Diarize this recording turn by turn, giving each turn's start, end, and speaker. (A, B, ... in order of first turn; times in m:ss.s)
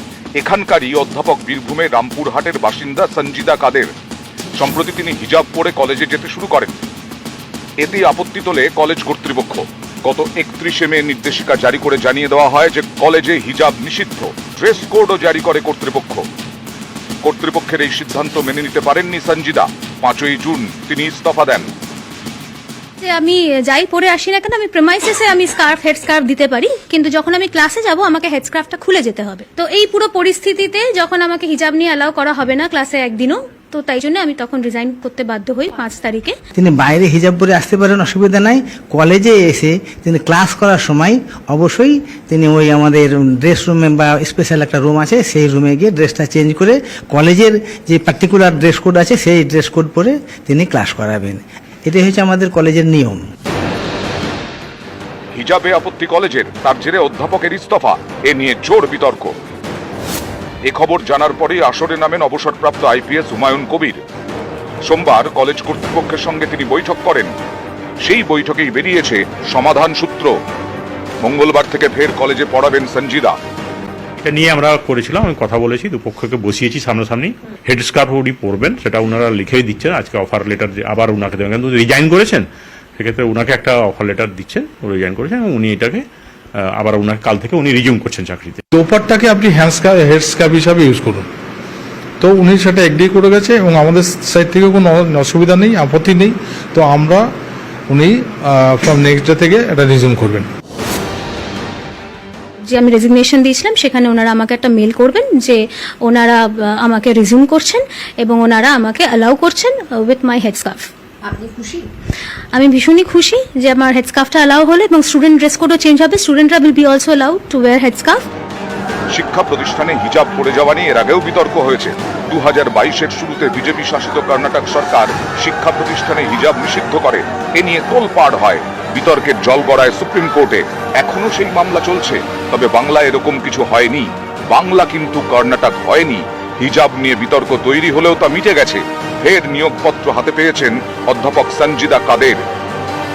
0:00.4-0:03.9 A
0:04.6-0:06.7 A
0:07.8-0:16.2 A
0:17.2-0:21.7 A
0:23.0-0:36.3 B
0:36.5-0:53.2 C
0:55.3-0:59.3 A
1:00.6-1:04.0 A
1:04.8-1:07.3 A
1:08.0-1:10.3 A
1:11.2-1:13.4 A
1:14.2-1:22.4 D
1:23.0-1:26.0 D
1:26.6-1:28.6 D
1:28.7-1:31.3 E
1:32.2-1:37.2 E
1:37.9-1:40.5 E
1:42.7-1:50.9 B
1:52.5-1:58.2 B
1:59.1-2:22.4 A